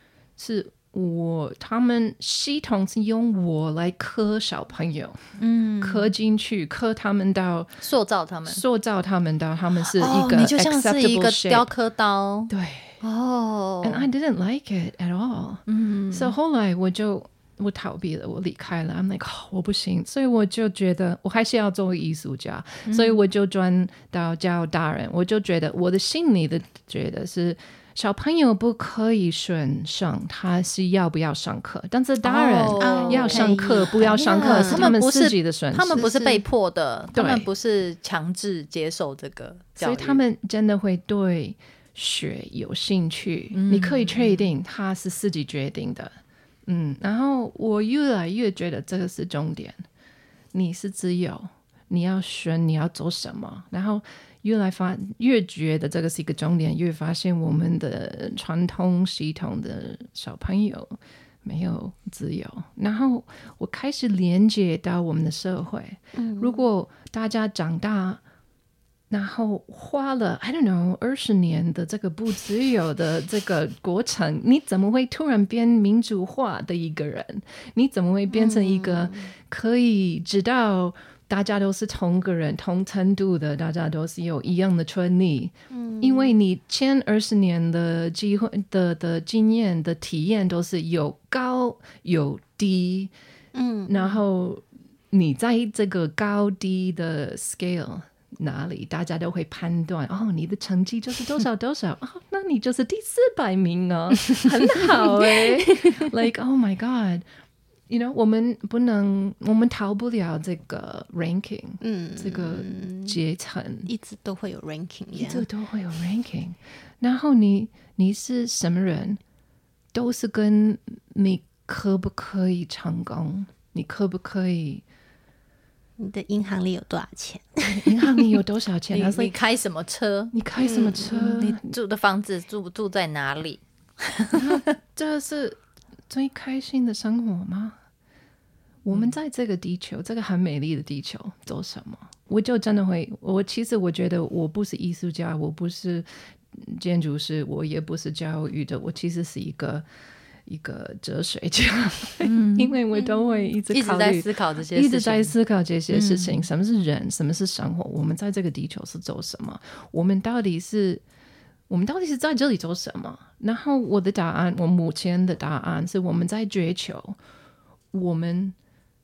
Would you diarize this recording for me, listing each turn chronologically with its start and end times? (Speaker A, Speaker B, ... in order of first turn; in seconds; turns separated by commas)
Speaker A: 0.4-7.8, Speaker B: 5.4-6.1, Speaker B: 7.8-8.6, Speaker A: 8.5-11.7, Speaker B: 9.9-14.1, Speaker A: 12.5-13.0, Speaker A: 13.8-36.1, Speaker B: 15.7-16.3, Speaker B: 22.8-23.2, Speaker B: 32.2-40.2, Speaker C: 32.8-34.9, Speaker C: 36.0-36.4, Speaker A: 37.1-37.5, Speaker A: 39.8-49.8, Speaker B: 43.5-44.5, Speaker A: 50.5-68.2, Speaker C: 66.1-66.7, Speaker A: 69.1-93.1, Speaker C: 78.3-79.3, Speaker C: 85.7-86.3, Speaker C: 93.5-94.2, Speaker A: 93.9-107.2, Speaker C: 105.4-105.9, Speaker A: 107.9-113.9, Speaker C: 111.8-113.2, Speaker C: 113.8-115.5, Speaker A: 115.1-119.2, Speaker A: 119.9-124.8, Speaker C: 126.0-128.3, Speaker A: 127.7-129.3, Speaker B: 128.9-130.3, Speaker A: 130.3-131.7, Speaker C: 130.6-131.4, Speaker B: 131.1-134.6, Speaker A: 134.3-137.8, Speaker A: 138.8-149.8, Speaker A: 150.4-161.0, Speaker B: 152.2-152.8, Speaker C: 152.9-153.5, Speaker B: 153.7-155.3, Speaker B: 155.9-156.5, Speaker A: 161.7-167.2, Speaker A: 167.9-168.6